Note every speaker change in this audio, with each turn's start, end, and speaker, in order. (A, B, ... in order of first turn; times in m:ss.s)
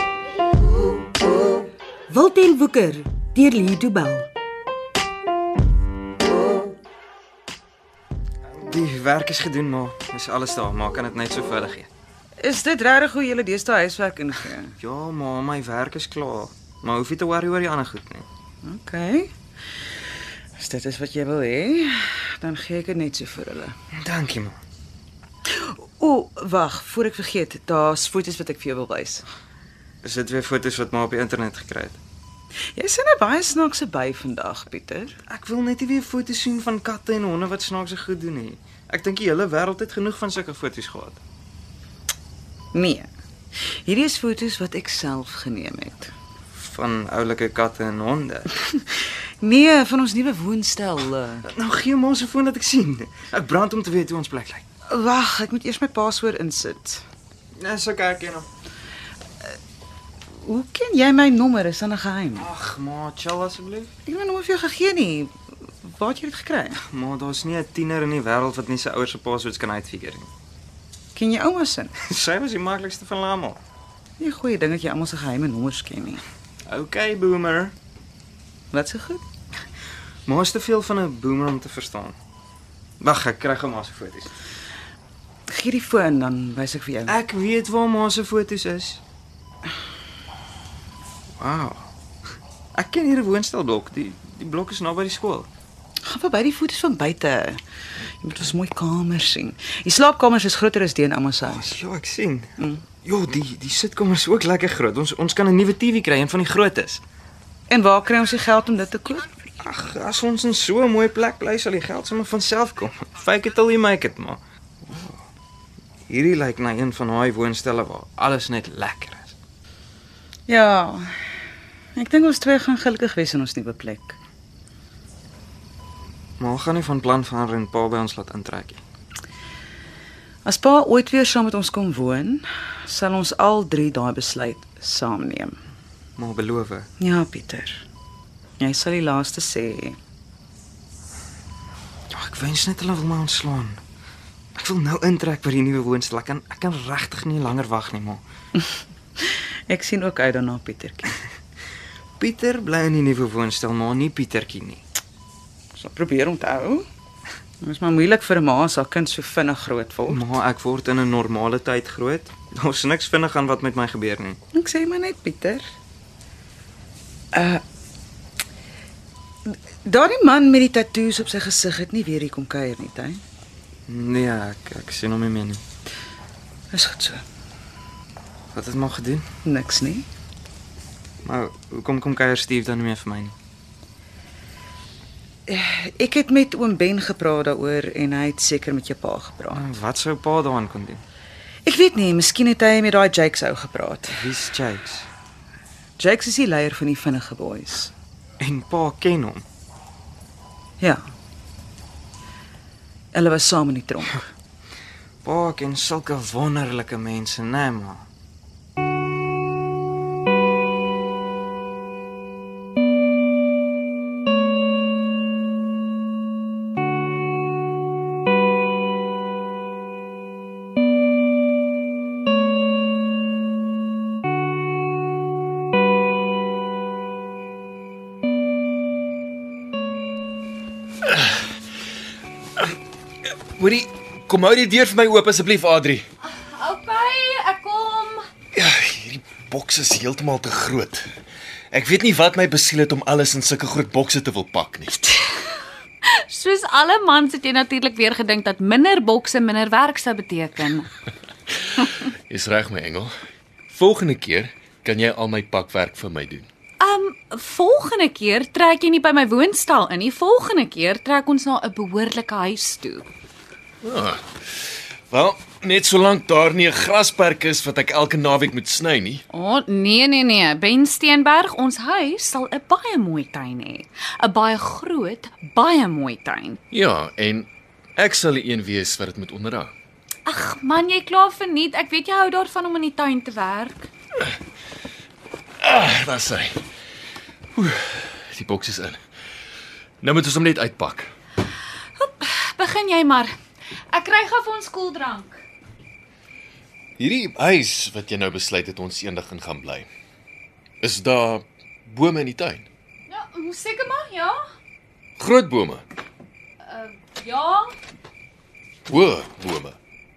0:02.1-0:04.3 A
0:08.5-0:11.9 B
0:12.4-0:14.7 C
0:14.8-0:18.2 B
0:18.6-0:19.3 C
0:20.6-0:23.7 C
0:24.0-0:24.6 B
0:25.5-0:29.2 C
0:30.0-0:32.0 B
0:32.7-0:35.1 C
0:35.3-0:41.2 B
0:42.7-0:43.1 C
0:43.8-0:46.1 C
0:46.6-0:48.8 B
0:49.4-0:51.4 C
0:51.4-0:54.6 B
0:54.9-0:57.0 C
0:57.6-0:58.5 B
1:00.4-1:02.5 C
1:02.3-1:03.9 B
1:04.0-1:06.8 C
1:06.8-1:10.3 B
1:11.1-1:11.9 C
1:12.0-1:13.6 B
1:14.2-1:16.2 C
1:16.7-1:17.7 B
1:18.7-1:19.2 C
1:20.3-1:22.1 B
1:23.0-1:24.3 B
1:25.5-1:27.2 C
1:27.0-1:29.0 B
1:31.4-1:31.8 B
1:32.7-1:35.5 B
1:36.1-1:37.6 C
1:38.2-1:41.7 C
1:41.5-1:47.0 B
1:47.7-1:49.3 C
1:49.6-1:55.1 B
1:56.1-1:59.3 B
2:00.5-2:01.1 C
2:02.0-2:04.2 C
2:06.4-2:08.8 B
2:10.4-2:15.6 C
2:16.2-2:16.9 B
2:17.0-2:17.8 C
2:18.6-2:20.0 C
2:22.1-2:23.8 B
2:24.6-2:28.2 B
2:29.7-2:31.1 C
2:32.2-2:34.8 B
2:35.8-2:36.8 C
2:37.6-2:40.2 C
2:40.1-2:44.4 B
2:44.5-2:45.6 C
2:47.3-2:47.6 C
2:49.5-2:53.2 C
2:53.9-2:55.6 B
2:56.7-2:57.2 C
2:58.5-2:59.2 B
2:59.4-3:00.0 C
3:01.2-3:03.3 B
3:05.5-3:09.7 C
3:09.5-3:11.0 B
3:11.6-3:14.3 C
3:14.1-3:15.1 B
3:16.0-3:17.9 C
3:18.4-3:19.4 B
3:23.1-3:24.3 C
3:25.2-3:28.1 B
3:53.6-3:56.0 D
3:56.2-3:58.2 E
3:58.5-4:01.0 D
4:01.7-4:05.0 D
4:06.1-4:10.9 E
4:12.3-4:13.1 D
4:13.7-4:16.5 D
4:16.8-4:23.1 E
4:23.8-4:24.2 D
4:25.1-4:29.2 D
4:29.3-4:36.6 E
4:36.7-4:39.7 D
4:40.2-4:43.9 E
4:45.6-4:46.6 D
4:47.6-4:49.0 D
4:50.0-4:51.1 D
4:52.0-4:53.3 E
4:53.9-4:55.4 E
4:57.0-4:59.9 D
5:00.8-5:02.6 D
5:03.1-5:04.4 E
5:05.2-5:05.8 D
5:06.7-5:07.7 E
5:08.9-5:09.8 D